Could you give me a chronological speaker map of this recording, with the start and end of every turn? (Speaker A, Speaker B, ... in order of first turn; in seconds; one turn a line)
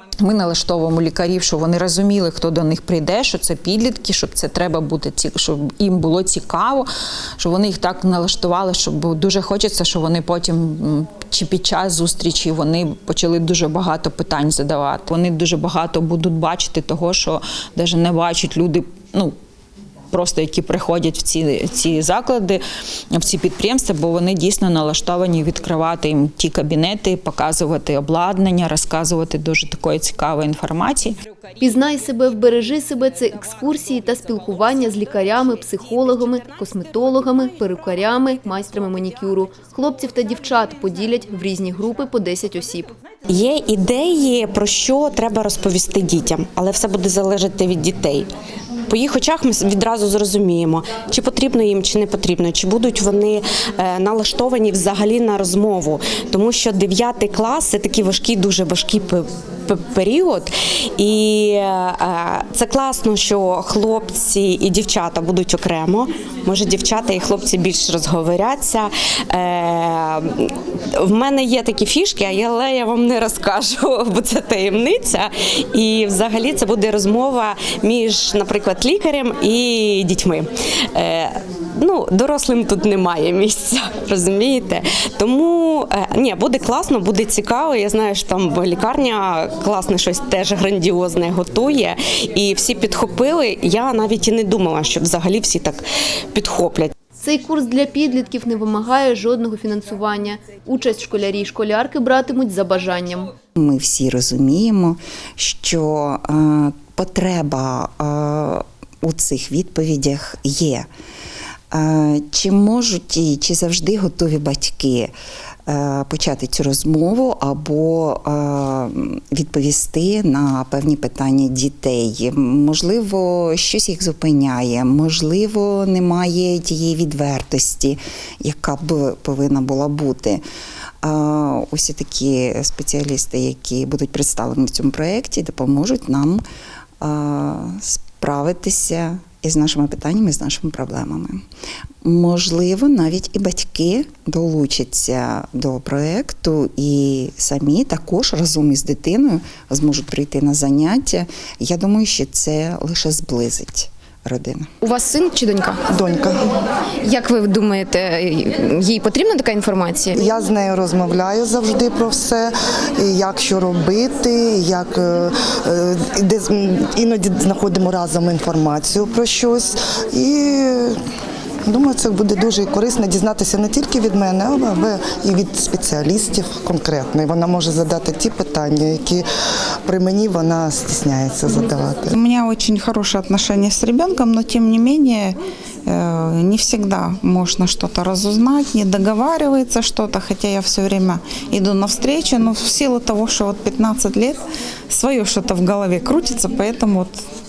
Speaker A: 0.2-6.9
Speaker A: 7.4-19.3
Speaker A: 20.1-22.6
Speaker A: 23.1-31.2
Speaker B: 31.6-42.9
Speaker C: 43.3-48.3
Speaker C: 48.9-95.8
Speaker C: 96.3-96.9
Speaker B: 97.2-103.3
Speaker D: 103.6-110.9
Speaker D: 111.7-115.1
Speaker D: 115.7-130.4
Speaker D: 131.0-136.4
Speaker D: 137.0-141.4
Speaker D: 142.0-154.7
Speaker E: 154.8-155.8
Speaker F: 155.9-156.4
Speaker E: 157.0-160.2
Speaker F: 160.1-170.9
Speaker F: 171.7-179.2
Speaker F: 179.9-182.2
Speaker G: 182.2-194.4
Speaker G: 194.9-197.1